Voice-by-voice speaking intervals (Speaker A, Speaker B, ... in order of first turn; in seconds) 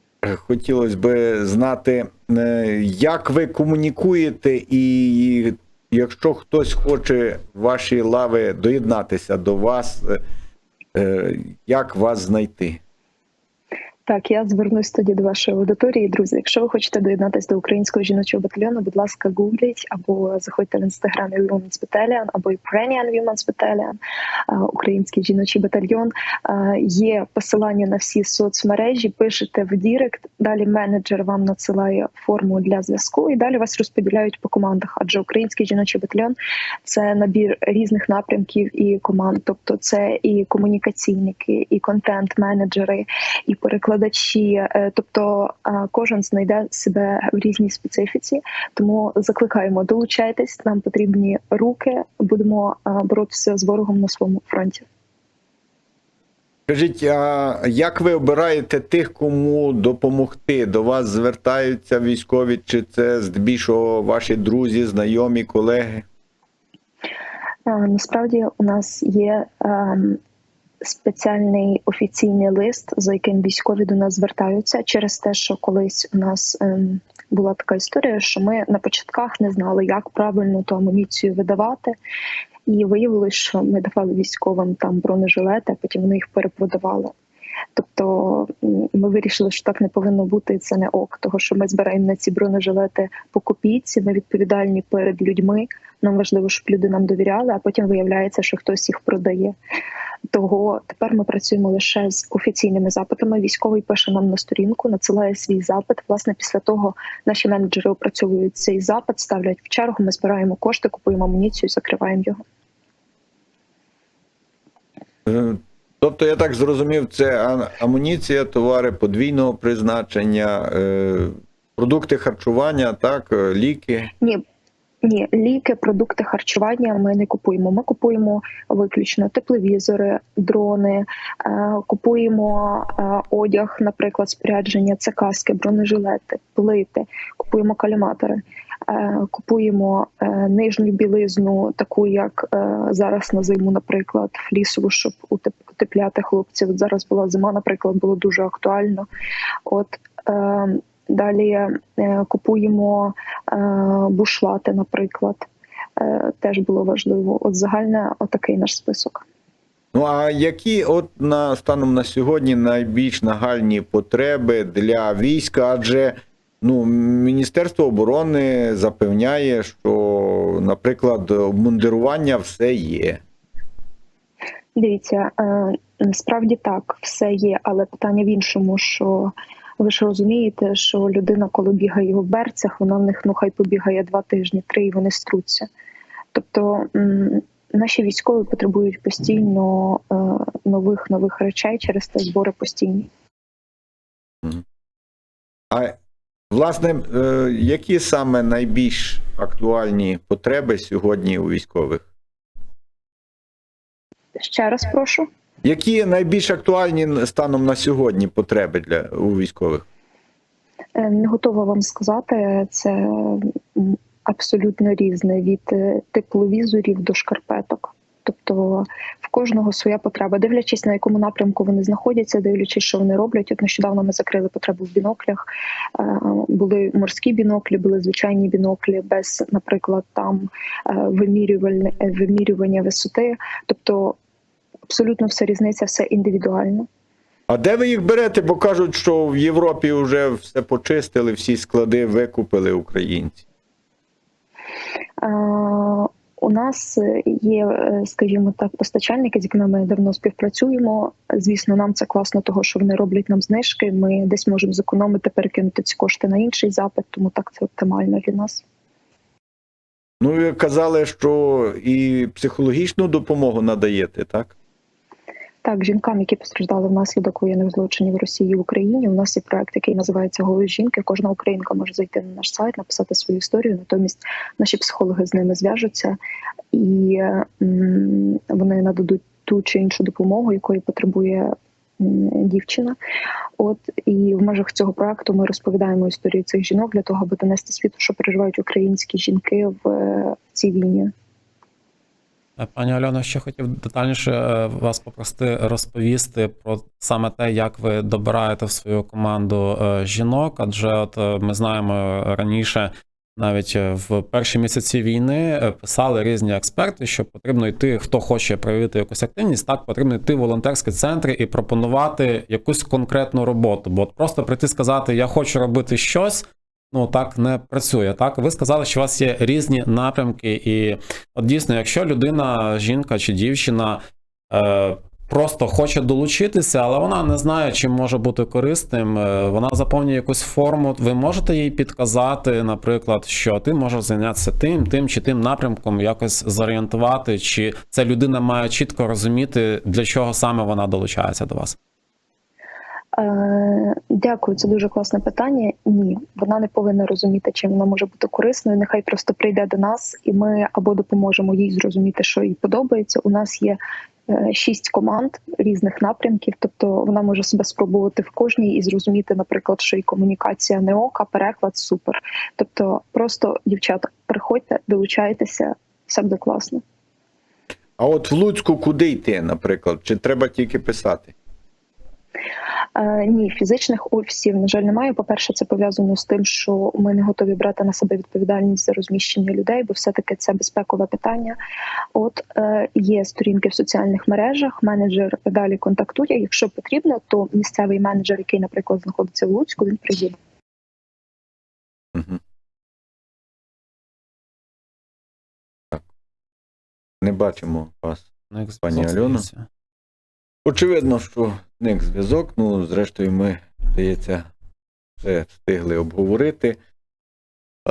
Speaker A: 0.2-10.2, 10.9-12.8, 56.7-66.0, 115.2-124.1, 159.9-173.2, 196.5-202.1, 205.6-209.8, 237.5-243.4, 260.2-264.5, 368.0-371.3, 397.2-398.2, 398.8-399.4, 400.6-404.5, 405.2-406.8
Speaker B: 14.1-54.8, 67.7-70.2, 70.8-81.9, 82.7-87.1, 87.8-99.5, 100.3-112.4, 125.0-149.1, 149.7-155.5, 156.0-159.2, 174.8-185.7, 186.3-193.1, 204.4-205.3, 210.9-234.2, 234.9-236.9, 245.2-258.6, 265.6-276.2, 276.7-282.9, 283.6-291.1, 343.1-366.8, 372.9-381.6, 382.1-390.4
Speaker C: 292.6-341.8, 398.5-399.6